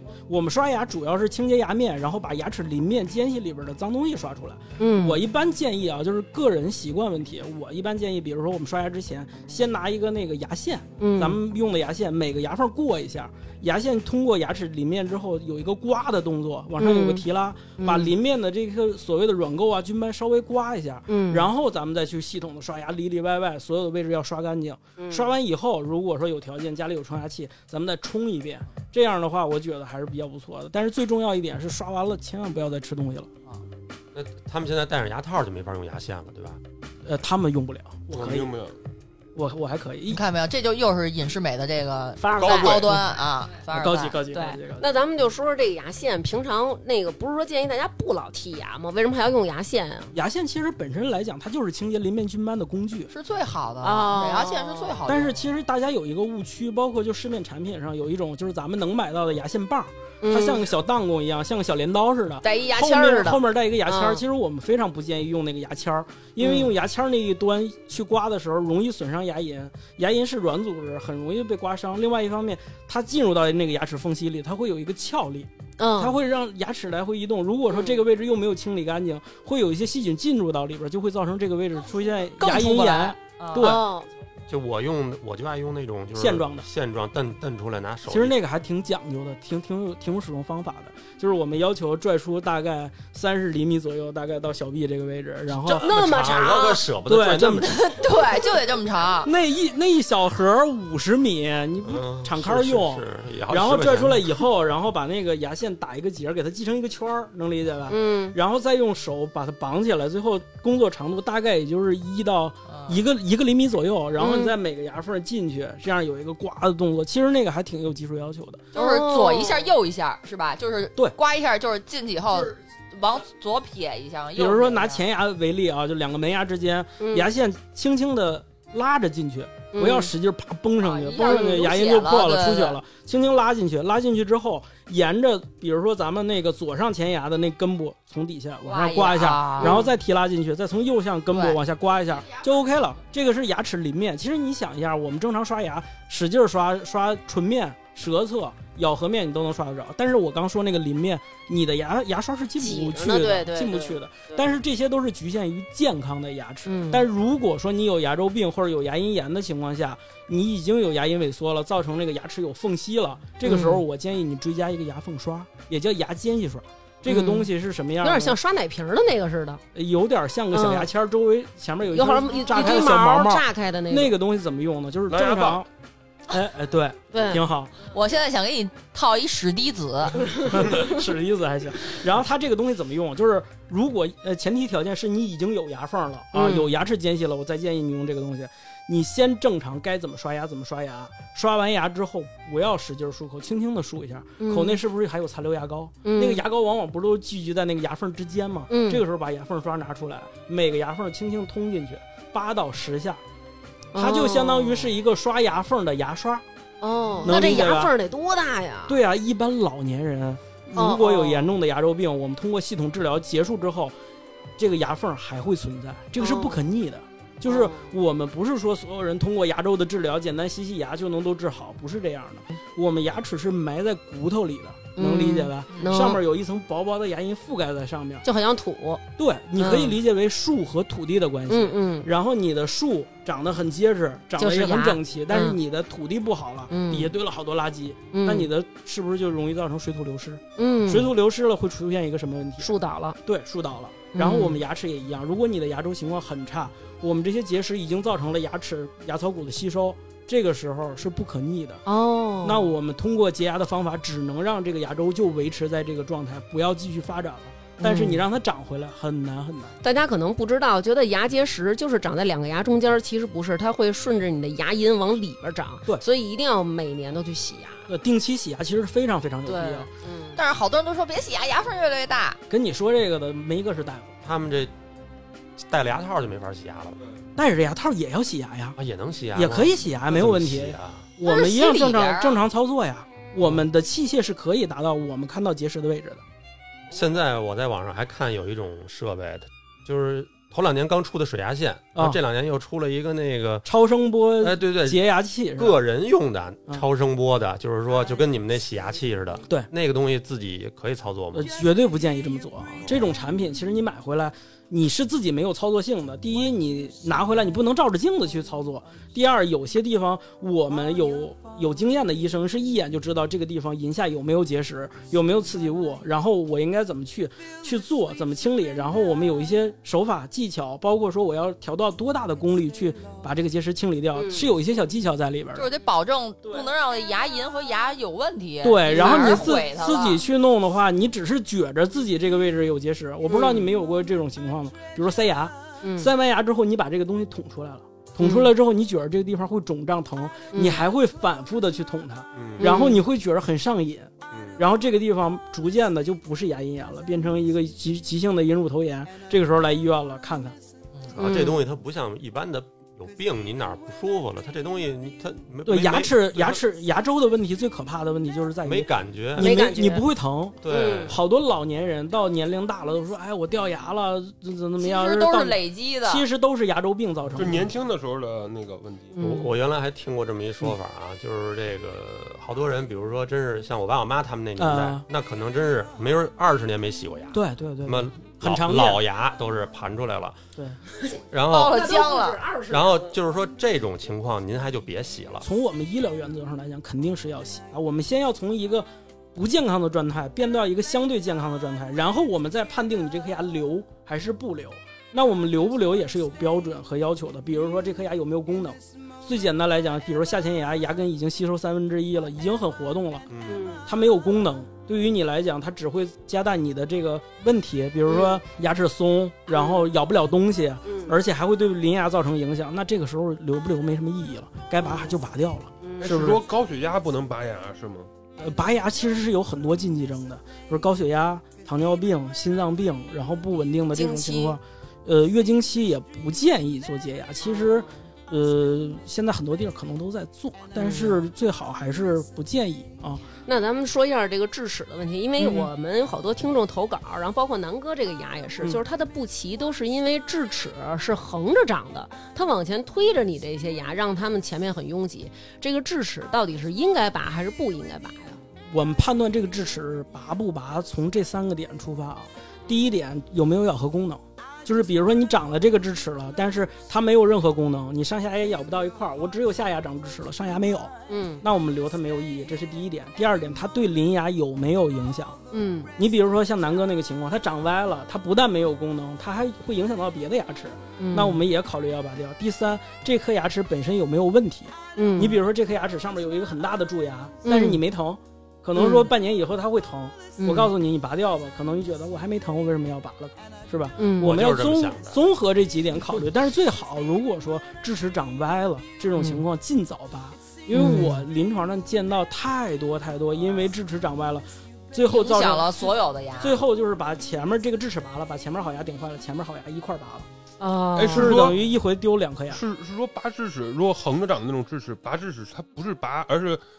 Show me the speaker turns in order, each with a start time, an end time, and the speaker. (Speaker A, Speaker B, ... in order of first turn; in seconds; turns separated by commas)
Speaker A: 0.3-33.3, Speaker B: 4.8-5.2, Speaker B: 11.0-11.4, Speaker B: 16.8-17.2, Speaker B: 17.8-18.1, Speaker B: 21.1-21.5, Speaker B: 25.0-25.3, Speaker C: 34.1-36.6, Speaker A: 37.0-38.5, Speaker D: 38.1-38.7, Speaker A: 39.3-40.2, Speaker E: 40.1-44.2, Speaker B: 42.3-42.7, Speaker D: 42.3-43.0, Speaker A: 43.7-44.9, Speaker B: 44.3-50.1, Speaker A: 50.1-53.1, Speaker E: 53.1-55.5, Speaker B: 53.8-55.0, Speaker A: 55.0-83.9, Speaker B: 60.2-60.6, Speaker B: 62.4-64.2, Speaker B: 66.4-66.7, Speaker B: 75.8-76.2, Speaker B: 77.7-78.0, Speaker E: 82.4-83.8, Speaker B: 83.6-84.1, Speaker C: 84.5-88.4, Speaker A: 86.2-86.7, Speaker A: 88.1-95.9, Speaker B: 95.7-96.9, Speaker C: 95.7-97.8, Speaker A: 97.0-97.7, Speaker E: 97.6-99.3, Speaker A: 99.2-118.6, Speaker C: 101.8-104.3, Speaker B: 107.9-108.4, Speaker E: 112.7-113.0, Speaker B: 114.2-114.5, Speaker B: 118.7-119.7, Speaker E: 118.7-125.0, Speaker A: 124.4-168.4, Speaker B: 127.0-127.3, Speaker B: 129.7-130.1, Speaker E: 130.8-132.8, Speaker B: 131.2-131.6, Speaker E: 138.6-139.8, Speaker B: 139.6-139.9, Speaker E: 141.3-141.6, Speaker E: 142.1-142.4, Speaker B: 152.6-154.5, Speaker B: 156.7-157.1, Speaker B: 163.4-163.8, Speaker B: 167.1-169.6, Speaker A: 169.7-175.7, Speaker B: 170.5-170.9, Speaker B: 171.9-174.1, Speaker D: 175.1-175.6, Speaker A: 176.3-177.7, Speaker B: 177.1-177.4, Speaker E: 177.8-180.3, Speaker A: 180.3-203.2, Speaker B: 180.5-180.9, Speaker B: 186.3-186.7, Speaker B: 194.4-194.8, Speaker B: 196.0-196.4, Speaker B: 198.7-199.0, Speaker B: 203.9-204.9, Speaker A: 203.9-206.4, Speaker B: 206.8-209.0, Speaker A: 207.2-207.9, Speaker A: 208.9-213.9, Speaker B: 210.7-211.5, Speaker A: 214.6-228.2, Speaker B: 216.2-216.6, Speaker B: 217.4-217.9, Speaker B: 225.0-226.2, Speaker B: 228.2-229.0, Speaker A: 229.2-242.7, Speaker B: 229.6-230.0, Speaker B: 231.5-232.1, Speaker B: 234.4-235.6, Speaker B: 236.7-237.1, Speaker B: 238.1-238.5, Speaker B: 240.6-241.1, Speaker B: 242.6-243.2, Speaker A: 243.2-251.8, Speaker B: 244.1-244.6, Speaker B: 251.9-252.7, Speaker A: 252.4-259.7, Speaker B: 257.8-258.2, Speaker B: 259.8-267.9, Speaker A: 267.9-269.9, Speaker B: 269.4-270.4, Speaker E: 270.4-272.4, Speaker A: 272.5-274.1, Speaker C: 274.2-274.7, Speaker C: 275.6-277.0, Speaker A: 277.4-278.8, Speaker C: 278.8-281.1, Speaker A: 279.3-286.2, Speaker E: 281.2-282.4, Speaker C: 283.4-283.7, Speaker C: 286.9-293.7, Speaker A: 293.6-295.8, Speaker C: 294.4-295.0, Speaker C: 295.6-301.5, Speaker A: 301.3-325.7, Speaker B: 324.1-324.5, Speaker E: 325.5-330.2, Speaker A: 328.6-350.6, Speaker B: 328.9-329.4, Speaker B: 333.3-333.7, Speaker B: 335.8-336.1, Speaker B: 338.2-338.5, Speaker B: 340.5-340.8, Speaker C: 342.4-342.7, Speaker B: 342.6-343.0, Speaker C: 344.3-344.6, Speaker C: 351.1-356.6, Speaker B: 351.2-351.6, Speaker A: 355.6-367.7, Speaker C: 358.6-359.6, Speaker B: 359.4-360.1, Speaker C: 360.6-361.1, Speaker B: 360.7-361.1, Speaker E: 364.8-366.2, Speaker D: 367.4-369.1, Speaker B: 369.1-369.5, Speaker C: 369.2-380.4, Speaker A: 374.6-375.0, Speaker A: 377.3-379.0, Speaker B: 381.0-383.1, Speaker C: 381.3-381.9, Speaker E: 381.5-382.4, Speaker C: 382.7-385.5, Speaker A: 385.4-403.3, Speaker C: 403.3-403.6, Speaker B: 403.4-403.8, Speaker A: 403.9-416.4, Speaker B: 408.1-408.4, Speaker B: 409.5-409.9, Speaker B: 410.9-411.1, Speaker B: 414.8-415.1, Speaker B: 415.8-416.2, Speaker D: 416.0-418.1, Speaker A: 418.4-433.2, Speaker B: 423.9-424.6, Speaker B: 427.4-427.9, Speaker B: 430.8-431.2, Speaker B: 433.5-448.4, Speaker A: 435.4-435.7, Speaker A: 448.7-465.4, Speaker B: 461.1-461.4, Speaker B: 465.5-465.9, Speaker A: 466.0-495.9, Speaker B: 471.0-471.4, Speaker B: 474.9-475.4, Speaker B: 477.4-477.8, Speaker B: 478.8-479.1, Speaker B: 480.4-480.7, Speaker B: 484.0-484.4, Speaker C: 484.2-485.2, Speaker B: 489.1-489.4, Speaker B: 490.7-491.2, Speaker E: 495.1-496.6, Speaker A: 496.4-500.2, Speaker B: 500.6-501.6, Speaker D: 500.9-501.6, Speaker A: 501.1-502.6, Speaker D: 502.5-506.6